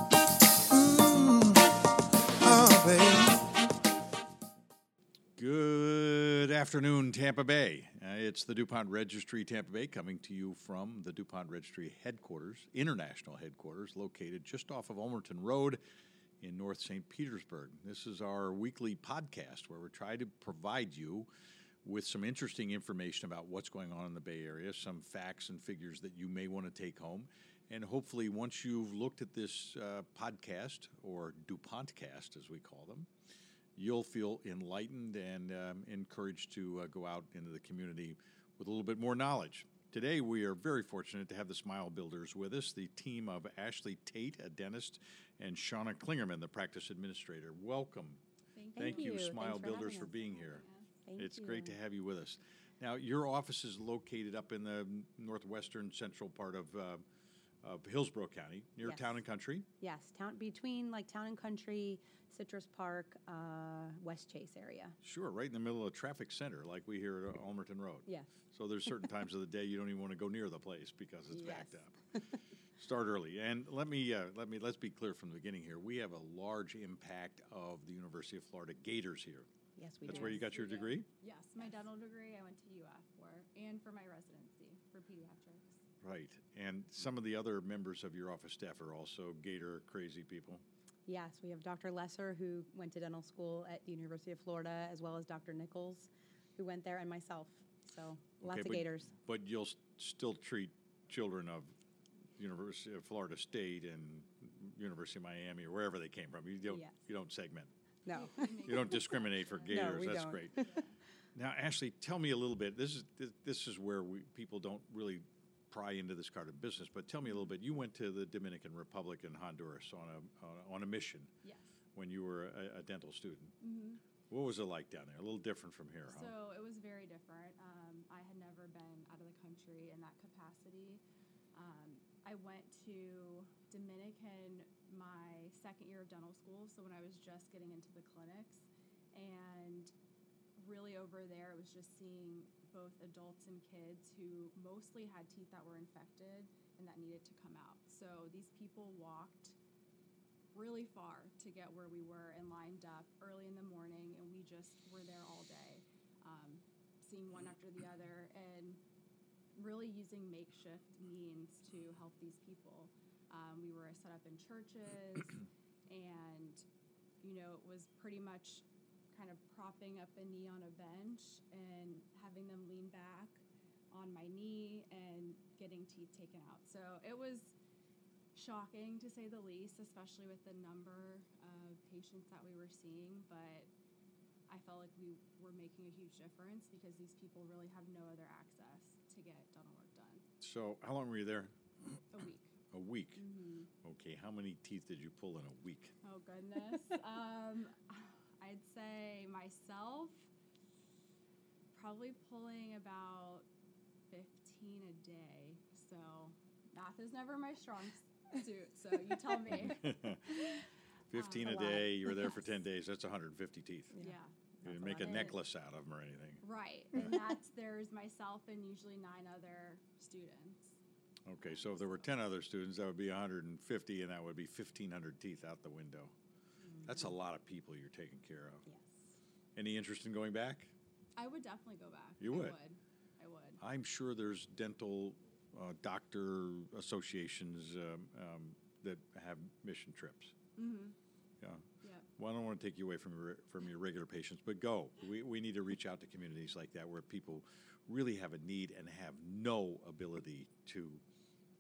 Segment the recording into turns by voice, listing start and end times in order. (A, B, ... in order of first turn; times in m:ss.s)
0:00.7-0:01.6 A
0:02.4-0:03.4 A
0:05.4-0:15.8 A
0:16.4-0:21.3 A
0:21.8-0:33.1 A
0:33.8-0:48.2 A
0:48.6-0:49.4 B
0:48.8-0:50.3 C
0:48.8-0:50.6 A
0:50.3-0:50.9 B
0:51.1-0:51.8 C
0:51.2-0:57.0 A
0:57.6-0:59.7 A
0:58.8-0:59.1 C
0:59.8-1:05.0 C
1:05.0-1:12.0 A
1:08.1-1:08.3 C
1:11.3-1:12.3 C
1:12.8-1:19.5 A
1:19.8-1:20.5 C
1:20.0-1:21.1 A
1:20.0-1:25.8 B
1:26.0-1:30.6 A
1:31.1-1:39.1 C
1:38.4-1:41.7 A
1:42.4-1:47.7 A
1:46.7-1:47.0 C
1:48.1-1:49.0 C
1:48.1-1:50.0 B
1:48.6-1:50.7 A
1:49.7-1:50.8 C
1:50.6-1:50.9 B
1:51.4-2:01.3 A
2:01.4-2:01.7 B
2:02.0-2:03.6 A
2:03.6-2:04.0 B
2:04.3-2:06.3 A
2:06.1-2:11.0 B
2:11.5-2:19.9 B
2:20.6-2:29.6 B
2:30.5-2:38.8 B
2:39.6-2:46.6 B
2:47.2-2:57.5 B
2:58.4-3:03.7 B
3:04.5-3:10.2 B
3:10.4-3:12.0 A
3:12.1-3:12.5 B
3:12.7-3:13.2 A
3:13.2-3:13.7 B
3:13.8-3:15.9 A
3:16.0-3:20.3 B
3:21.7-3:23.5 B
3:24.1-3:30.6 B
3:29.5-3:34.0 A
3:31.1-3:31.8 B
3:31.4-3:32.4 C
3:34.0-3:35.3 C
3:34.0-3:35.4 B
3:34.6-3:36.4 A
3:36.4-3:40.8 B
3:41.3-3:46.1 A
3:46.8-3:48.6 A
3:48.7-3:49.0 C
3:49.6-3:50.7 A
3:51.2-3:53.6 B
3:52.2-3:52.6 A
3:53.6-4:00.3 A
4:00.6-4:01.0 B
4:01.8-4:02.1 B
4:02.2-4:11.0 A